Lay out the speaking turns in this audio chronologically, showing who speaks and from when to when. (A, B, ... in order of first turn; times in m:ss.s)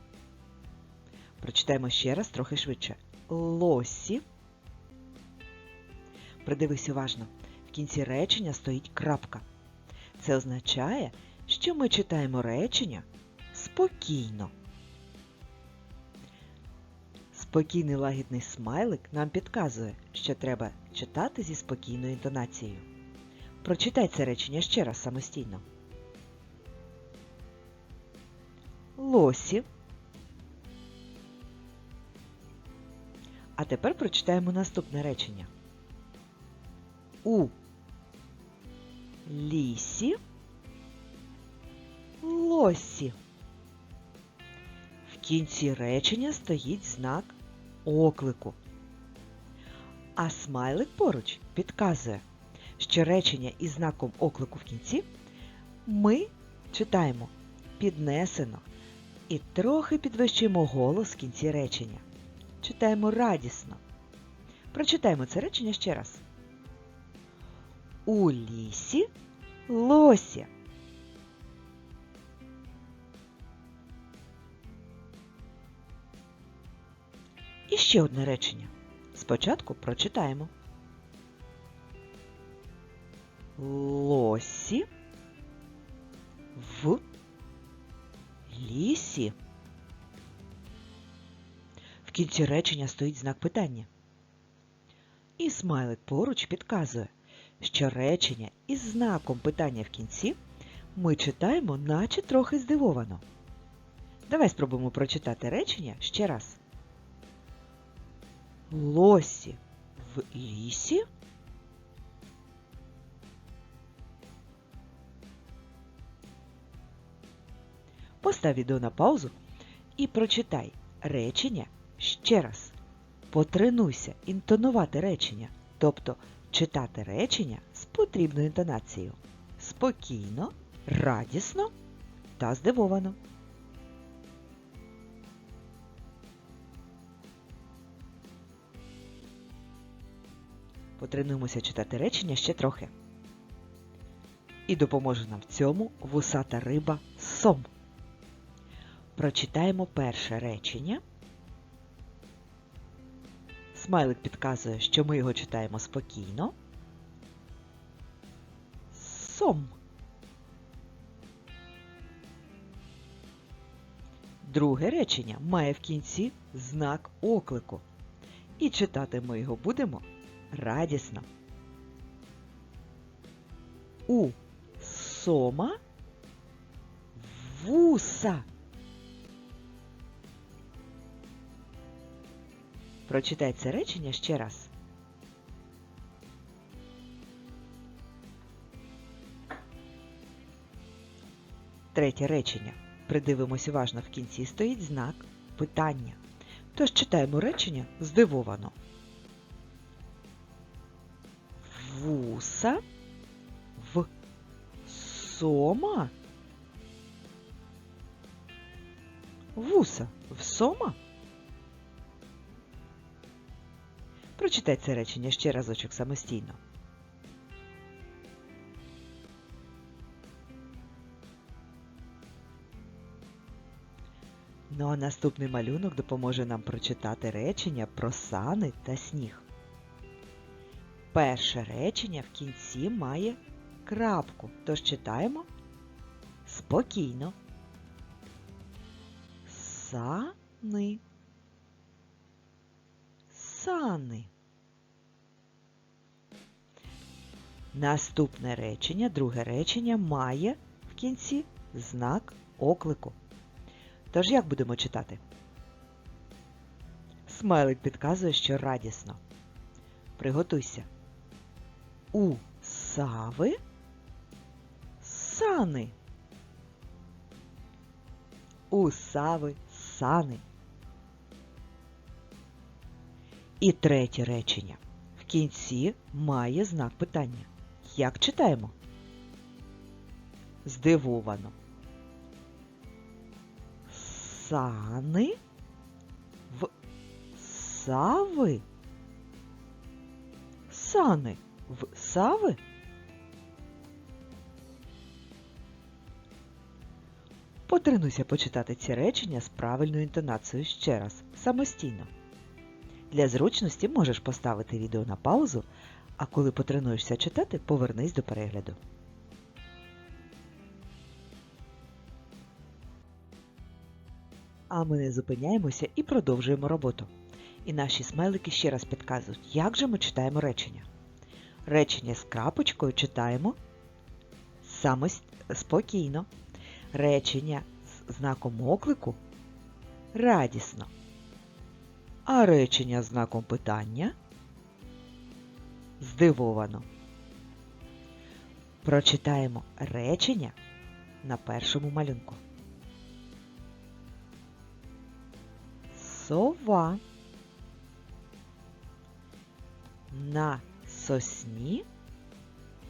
0:01.4-0:04.2 A
0:06.4-0:09.4 A
0:10.2-0:14.5 A
0:17.3-0:22.9 A
0:23.6-0:25.6 A
0:29.0-0:29.7 A
0:33.6-0:35.5 A
0:37.2-0:37.5 A
0:39.3-0:40.2 A
0:42.2-0:43.2 A
0:45.1-0:48.6 A
0:50.2-0:52.2 A
0:52.8-0:55.1 A
0:55.9-0:58.6 A
0:59.3-1:02.0 A
1:02.6-1:03.8 A
1:04.7-1:06.2 A
1:08.1-1:09.1 A
1:09.7-1:10.5 A
1:17.7-1:20.5 A
1:23.6-1:24.9 A
1:26.6-1:27.0 A
1:28.5-1:29.4 A
1:32.0-1:33.9 A
1:35.4-1:40.4 A
1:41.0-1:43.2 A
1:44.3-1:46.6 A
1:48.7-1:51.0 A
1:58.2-1:59.4 A
2:00.0-2:02.8 A
2:03.3-2:11.7 A
2:12.4-2:13.2 A
2:21.0-2:22.9 A
2:24.7-2:27.7 A
2:29.2-2:31.0 A
2:33.7-2:36.6 A
2:38.9-2:39.8 A
2:44.4-2:47.8 A
2:48.6-2:51.3 A
2:54.1-2:55.8 A
2:57.2-2:58.5 A
3:03.1-3:04.7 A
3:11.9-3:16.2 A
3:16.7-3:18.8 A
3:21.6-3:22.8 A
3:23.8-3:24.1 A
3:24.8-3:26.1 A
3:29.6-3:31.0 A
3:34.4-3:36.6 A
3:44.7-3:49.5 A
3:51.1-3:55.5 A
3:56.5-3:57.4 A
3:59.5-4:01.0 A
4:03.3-4:04.3 A
4:07.7-4:13.2 A
4:14.1-4:15.2 A
4:17.3-4:19.2 A
4:20.2-4:20.9 A
4:22.1-4:23.6 A
4:25.0-4:26.0 A
4:28.7-4:30.4 A
4:33.6-4:38.7 A
4:40.6-4:41.6 A
4:43.9-4:45.4 A
4:47.4-4:48.6 A
4:50.7-4:52.6 A
4:57.7-5:02.1 A
5:03.1-5:05.7 A
5:06.2-5:08.8 A
5:14.7-5:17.1 A
5:17.6-5:20.9 A
5:21.7-5:23.6 A
5:24.6-5:26.3 A
5:26.9-5:29.2 A
5:30.1-5:30.9 A
5:32.3-5:34.2 A
5:36.0-5:36.9 A
5:38.8-5:40.6 A
5:41.2-5:42.4 A
5:45.9-5:47.0 A
5:50.1-5:51.8 A